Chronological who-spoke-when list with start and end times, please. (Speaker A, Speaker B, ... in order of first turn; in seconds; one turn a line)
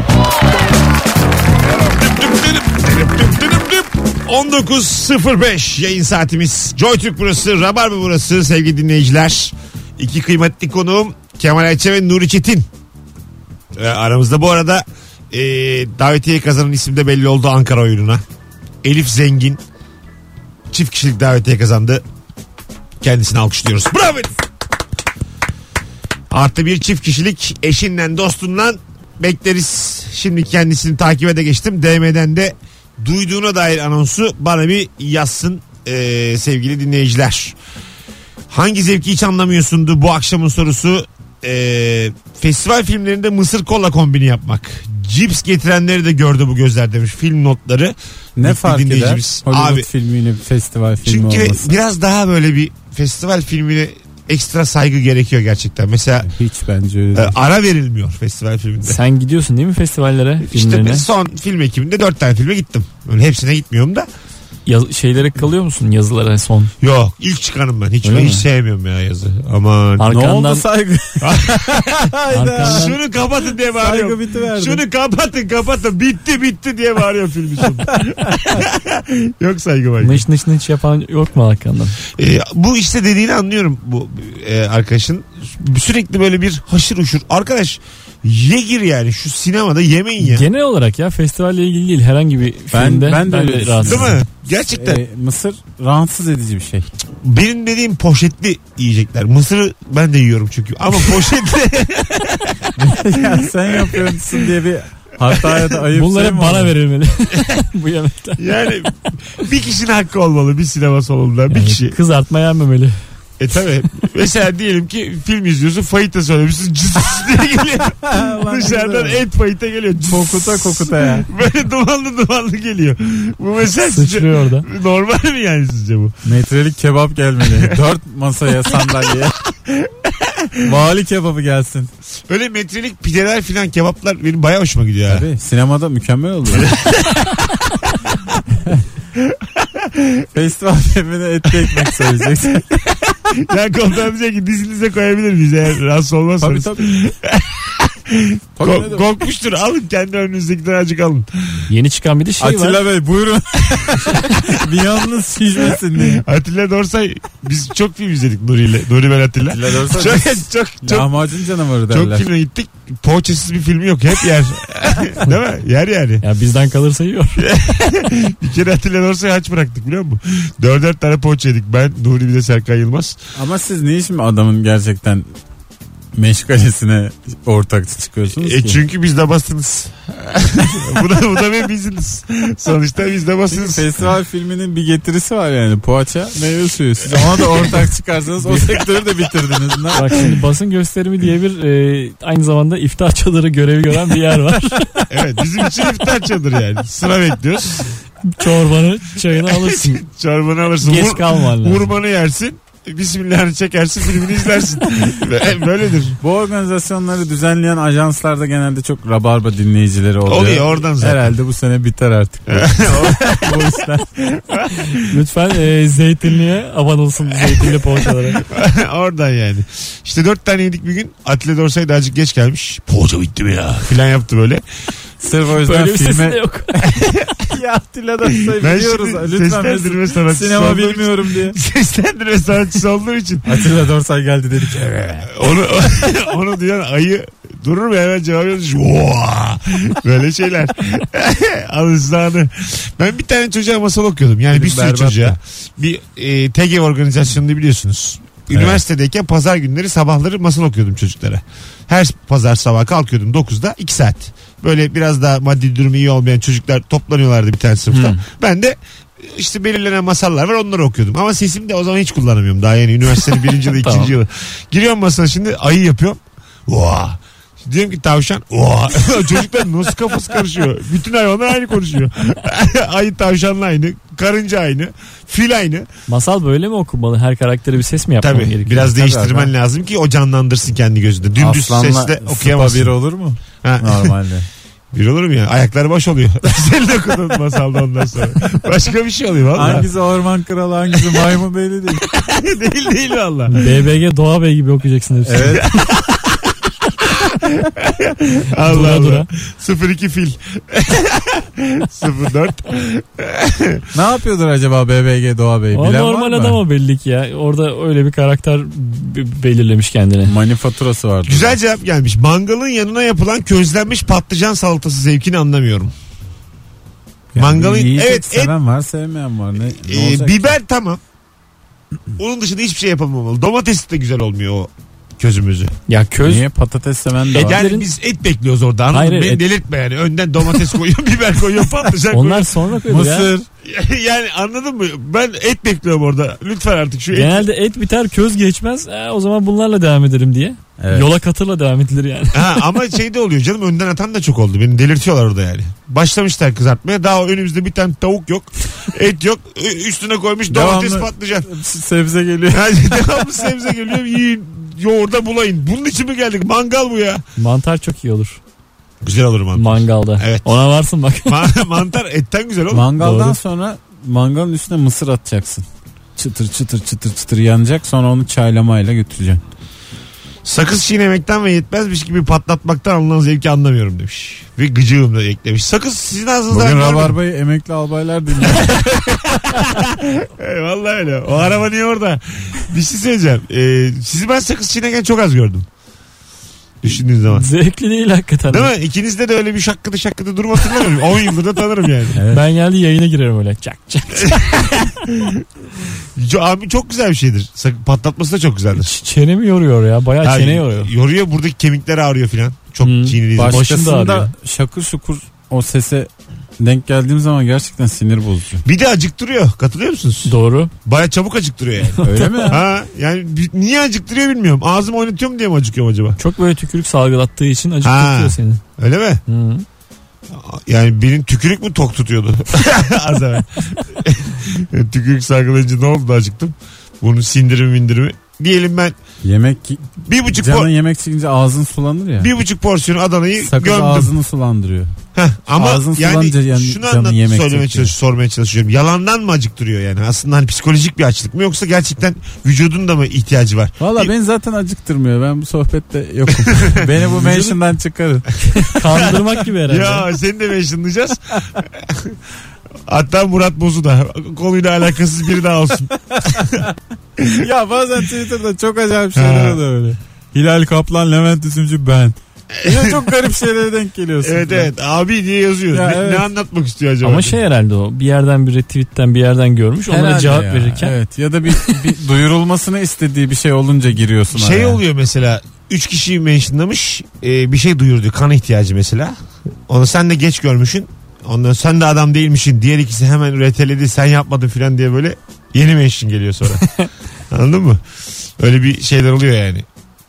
Speaker A: 1.8-12.7
Speaker A: 13.8-18.2
Speaker A: 18.8-19.6
Speaker A: 20.7-22.0
Speaker A: 23.0-24.4
Speaker A: 26.3-37.6
Speaker A: 38.5-49.9
Speaker B: 48.4-51.8
Speaker A: 51.0-56.3
Speaker B: 56.2-57.4
Speaker A: 57.1-59.0
Speaker C: 58.8-61.1
Speaker A: 60.4-64.1
Speaker C: 64.7-66.7
Speaker A: 66.8-70.1
Speaker C: 68.0-68.4
Speaker C: 70.0-70.7
Speaker B: 70.1-73.0
Speaker A: 71.2-72.1
Speaker C: 72.3-73.0
Speaker A: 72.6-80.2
Speaker B: 73.7-74.8
Speaker C: 80.0-82.0
Speaker A: 82.2-90.5
Speaker C: 90.2-94.2
Speaker B: 92.7-96.9
Speaker A: 93.8-95.0
Speaker A: 97.2-104.5
Speaker B: 102.8-106.7
Speaker A: 105.3-105.7
Speaker C: 105.9-108.6
Speaker A: 108.4-112.0
Speaker C: 111.5-113.0
Speaker A: 113.4-126.2
Speaker B: 118.0-119.2
Speaker B: 120.0-121.3
Speaker C: 123.8-124.7
Speaker B: 126.2-129.4
Speaker A: 127.4-127.8
Speaker A: 128.7-130.8
Speaker B: 130.6-131.9
Speaker A: 132.3-135.3
Speaker B: 135.1-136.7
Speaker A: 136.5-137.6
Speaker A: 139.2-140.3
Speaker B: 140.3-142.6
Speaker A: 141.5-151.7
Speaker B: 146.4-147.0
Speaker B: 148.6-149.1
Speaker C: 151.7-152.8
Speaker B: 152.4-156.2
Speaker A: 155.8-161.1
Speaker B: 159.5-162.3
Speaker A: 161.9-166.2
Speaker C: 166.2-167.4
Speaker A: 167.4-173.2
Speaker B: 173.4-175.3
Speaker B: 176.2-178.8
Speaker A: 178.3-183.9
Speaker B: 183.5-190.4
Speaker C: 189.9-195.1
Speaker A: 195.1-197.9
Speaker C: 198.2-200.0
Speaker A: 199.3-206.2
Speaker C: 200.8-201.9
Speaker B: 206.2-214.1
Speaker A: 210.3-211.3
Speaker A: 212.5-215.2
Speaker C: 215.0-218.4
Speaker A: 217.4-217.8
Speaker A: 218.3-224.6
Speaker B: 225.2-231.6
Speaker C: 225.5-226.9
Speaker A: 226.9-227.4
Speaker A: 228.4-233.6
Speaker B: 233.4-235.3
Speaker A: 235.2-275.9
Speaker B: 244.5-245.4
Speaker B: 248.5-248.8
Speaker C: 257.9-258.2
Speaker C: 263.7-264.1
Speaker C: 276.1-278.9
Speaker A: 278.2-283.0
Speaker B: 278.9-279.5
Speaker B: 281.4-284.5
Speaker A: 283.6-284.2
Speaker A: 284.9-289.9
Speaker B: 289.5-292.1
Speaker A: 290.9-291.3
Speaker A: 292.0-293.6
Speaker C: 293.5-295.8
Speaker B: 295.2-295.7
Speaker A: 295.6-303.8
Speaker C: 298.6-299.3
Speaker B: 303.9-306.6
Speaker C: 305.7-310.3
Speaker B: 310.3-311.6
Speaker A: 311.3-315.9
Speaker B: 317.3-320.6
Speaker A: 317.4-318.5
Speaker A: 319.7-321.0
Speaker A: 322.2-325.7
Speaker C: 325.9-326.5
Speaker B: 326.2-327.6
Speaker C: 327.3-327.9
Speaker A: 327.3-332.5
Speaker C: 328.9-329.4
Speaker C: 332.1-333.3
Speaker B: 332.9-333.5
Speaker A: 333.6-337.4
Speaker C: 337.1-342.6
Speaker B: 340.8-341.1
Speaker A: 342.3-351.5
Speaker B: 350.5-353.2
Speaker A: 352.5-357.2
Speaker C: 357.4-358.4
Speaker A: 359.0-360.5
Speaker C: 359.6-361.5
Speaker A: 361.3-362.9
Speaker B: 362.7-365.6
Speaker C: 363.0-363.4
Speaker B: 366.2-369.4
Speaker A: 370.4-377.2
Speaker B: 376.5-379.8
Speaker A: 378.4-385.7
Speaker A: 386.8-387.5
Speaker C: 387.3-388.7
Speaker A: 388.5-392.2
Speaker B: 392.1-392.4
Speaker C: 392.3-394.8
Speaker A: 394.2-395.4
Speaker A: 396.2-398.9
Speaker C: 398.8-400.9
Speaker A: 400.2-403.6
Speaker C: 402.8-404.3
Speaker B: 403.4-408.6
Speaker A: 408.6-416.2
Speaker C: 410.2-410.7
Speaker C: 411.9-412.5
Speaker B: 412.0-412.6
Speaker C: 416.2-418.6
Speaker A: 417.8-419.2
Speaker C: 419.3-419.7
Speaker A: 420.3-428.9
Speaker B: 429.2-432.3
Speaker A: 430.1-430.7
Speaker A: 432.2-434.1
Speaker B: 433.4-434.9
Speaker A: 435.1-444.1
Speaker B: 435.6-437.9
Speaker B: 443.8-448.8
Speaker A: 446.4-446.9
Speaker C: 447.1-447.6
Speaker C: 448.4-450.1
Speaker A: 448.9-452.2
Speaker A: 452.9-456.6
Speaker B: 456.4-456.6
Speaker A: 457.2-457.5
Speaker B: 457.4-464.7
Speaker A: 459.1-459.6
Speaker A: 462.6-463.1
Speaker A: 464.2-467.4
Speaker B: 465.7-466.3
Speaker C: 467.0-470.9
Speaker B: 469.9-474.8
Speaker C: 471.5-471.8
Speaker A: 474.3-479.1
Speaker A: 479.7-486.7
Speaker A: 487.3-487.8
Speaker A: 488.4-489.7